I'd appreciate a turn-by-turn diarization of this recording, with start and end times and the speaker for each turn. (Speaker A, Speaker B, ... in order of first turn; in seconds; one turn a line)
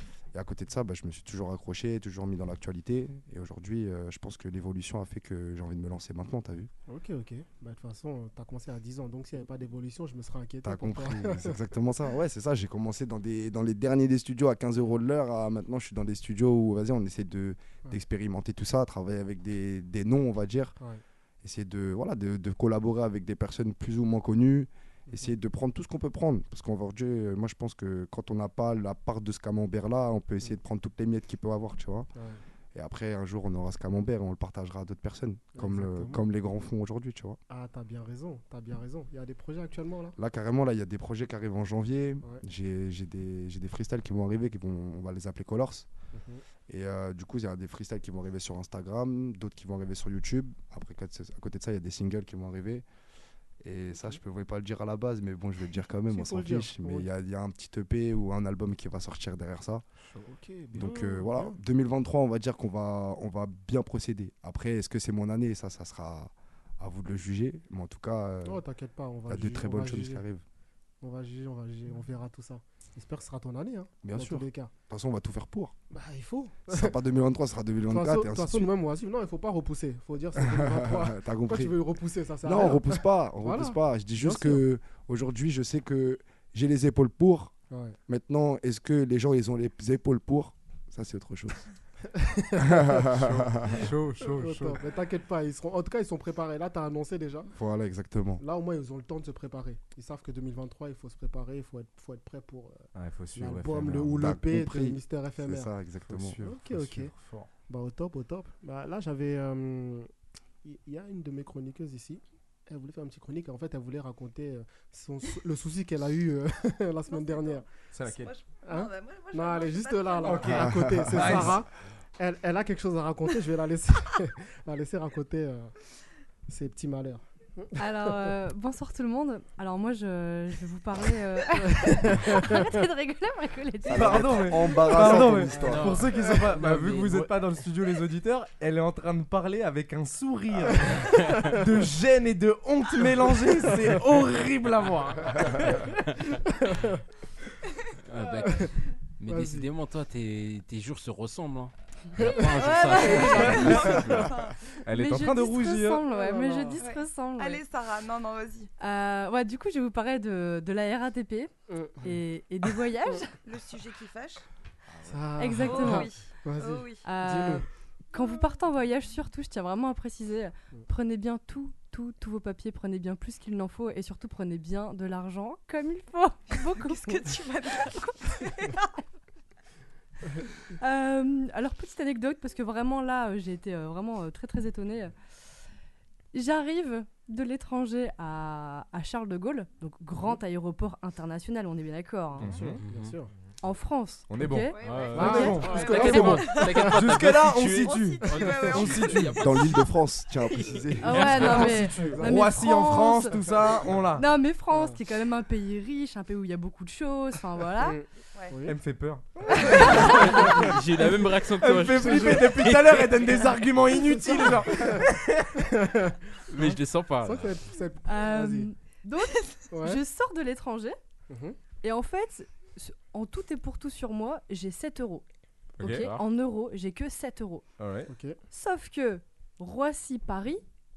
Speaker A: 0.3-6.7
Speaker B: 6.9-11.6
Speaker A: 10.6-20.7
Speaker A: 21.4-32.1
Speaker B: 25.1-25.3
Speaker B: 32.1-32.4
Speaker A: 32.7-37.4
Speaker B: 35.5-36.2
Speaker B: 37.5-40.1
Speaker A: 40.1-45.9
Speaker B: 46.1-46.4
Speaker A: 46.7-52.8
Speaker A: 53.6-59.8
Speaker B: 53.9-54.2
Speaker B: 56.1-57.1
Speaker B: 60.1-61.6
Speaker A: 60.7-68.6
Speaker B: 68.4-70.2
Speaker A: 69.3-70.4
Speaker B: 71.0-74.7
Speaker A: 74.0-75.7
Speaker B: 75.9-77.0
Speaker A: 76.7-78.7
Speaker B: 77.9-84.6
Speaker A: 80.3-81.7
Speaker A: 82.4-87.5
Speaker B: 87.7-88.0
Speaker A: 88.1-91.7
Speaker B: 92.1-93.1
Speaker A: 92.6-93.8
Speaker C: 93.7-94.8
Speaker B: 94.2-97.5
Speaker A: 97.5-98.4
Speaker B: 98.4-105.7
Speaker C: 103.0-104.3
Speaker A: 104.2-106.4
Speaker C: 106.1-107.5
Speaker B: 106.4-107.1
Speaker B: 107.7-110.1
Speaker B: 110.6-117.7
Speaker D: 117.1-120.5
Speaker C: 117.9-118.3
Speaker B: 118.6-125.7
Speaker C: 120.2-121.6
Speaker A: 120.6-121.5
Speaker B: 126.5-128.3
Speaker E: 127.8-134.9
Speaker B: 131.8-132.7
Speaker A: 133.8-136.0
Speaker C: 133.8-145.8
Speaker F: 135.5-137.3
Speaker F: 141.0-141.5
Speaker B: 146.5-146.9
Speaker F: 148.0-154.3
Speaker B: 148.4-148.7
Speaker B: 149.2-149.7
Speaker B: 152.3-154.3
Speaker D: 152.5-154.5
Speaker C: 153.3-153.9
Speaker C: 154.8-156.0
Speaker E: 154.9-157.6
Speaker B: 156.1-156.8
Speaker D: 156.8-158.7
Speaker E: 158.8-161.5
Speaker B: 161.7-162.2
Speaker E: 162.0-163.3
Speaker D: 163.4-164.4
Speaker B: 165.0-167.6
Speaker E: 165.3-166.1
Speaker D: 165.6-167.0
Speaker E: 167.0-177.9
Speaker D: 176.7-178.9
Speaker E: 180.8-185.1
Speaker E: 186.3-192.6
Speaker B: 192.3-193.3
Speaker C: 192.4-192.8
Speaker F: 192.8-193.1
Speaker E: 193.6-195.7
Speaker C: 194.3-199.5
Speaker D: 194.7-196.9
Speaker F: 194.8-199.9
Speaker B: 195.1-197.0
Speaker D: 197.7-199.2
Speaker A: 199.4-201.4
Speaker F: 200.4-201.8
Speaker E: 201.0-203.4
Speaker B: 201.2-202.5
Speaker C: 201.5-204.2
Speaker E: 204.1-208.0
Speaker B: 204.7-205.0
Speaker B: 207.8-208.8
Speaker C: 208.7-210.3
Speaker B: 209.5-210.7
Speaker E: 209.7-210.6
Speaker F: 210.0-213.4
Speaker C: 211.6-215.7
Speaker B: 212.0-212.5
Speaker B: 213.8-215.1
Speaker B: 215.6-218.7
Speaker F: 216.5-217.6
Speaker E: 218.1-221.0
Speaker B: 219.7-220.0
Speaker B: 221.3-221.6
Speaker E: 221.8-225.2
Speaker C: 225.8-226.2
Speaker E: 225.8-227.6
Speaker C: 227.8-228.1
Speaker B: 228.1-228.4
Speaker E: 228.5-230.6